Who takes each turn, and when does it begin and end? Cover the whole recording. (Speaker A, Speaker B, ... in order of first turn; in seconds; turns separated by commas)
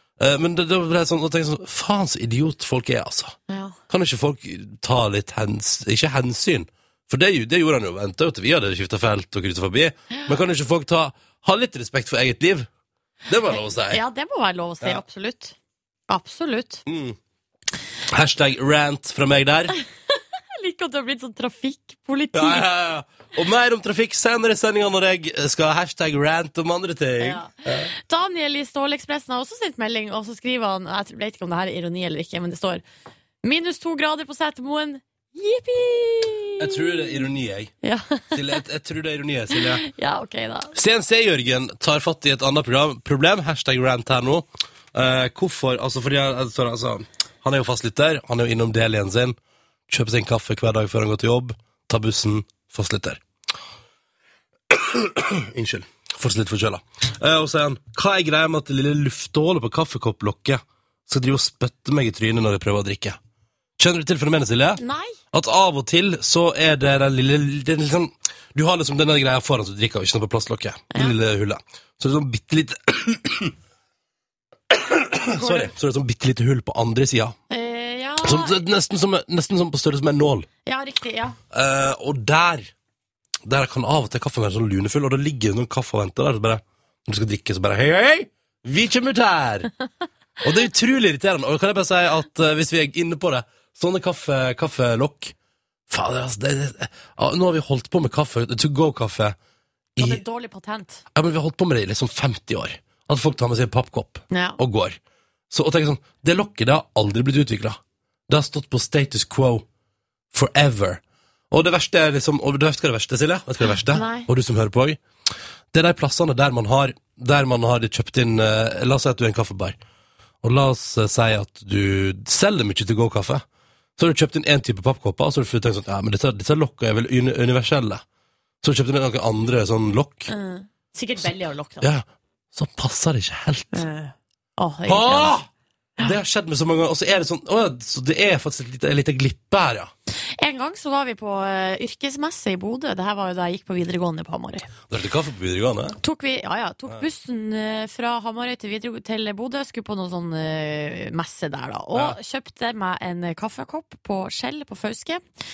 Speaker A: 0.2-3.4, Speaker B: 3.5-3.8, Speaker A: 3.9-12.7, Speaker B: 10.1-10.4, Speaker A: 13.3-14.0, Speaker B: 13.5-15.6, Speaker B: 16.1-16.8, Speaker A: 16.9-17.2, Speaker A: 18.1-19.8, Speaker B: 20.6-22.7, Speaker A: 22.3-27.9, Speaker B: 27.2-32.8, Speaker B: 33.4-37.2, Speaker A: 36.6-37.7, Speaker B: 37.8-38.6, Speaker A: 38.3-39.8, Speaker B: 39.5-40.8, Speaker A: 40.8-49.4, Speaker A: 49.9-53.2, Speaker A: 54.7-63.2, Speaker A: 63.8-64.8, Speaker B: 64.8-65.2, Speaker A: 65.3-73.5, Speaker A: 74.7-77.4, Speaker B: 75.3-75.7, Speaker B: 77.5-78.6, Speaker A: 78.2-80.5, Speaker B: 80.7-81.4, Speaker A: 81.5-82.7, Speaker A: 83.5-89.7, Speaker A: 90.4-95.3, Speaker A: 95.9-99.4, Speaker A: 100.0-100.2, Speaker B: 100.0-101.0, Speaker A: 101.2-105.0, Speaker B: 104.3-104.6, Speaker A: 105.5-109.7, Speaker A: 110.3-115.0, Speaker B: 113.9-114.3, Speaker A: 115.7-119.8, Speaker A: 120.4-123.4, Speaker A: 124.0-128.0, Speaker A: 128.6-130.3, Speaker B: 130.3-131.9, Speaker A: 131.8-133.9, Speaker B: 133.7-135.4, Speaker A: 134.9-139.9, Speaker B: 140.4-144.7, Speaker A: 144.9-146.0, Speaker B: 146.0-155.2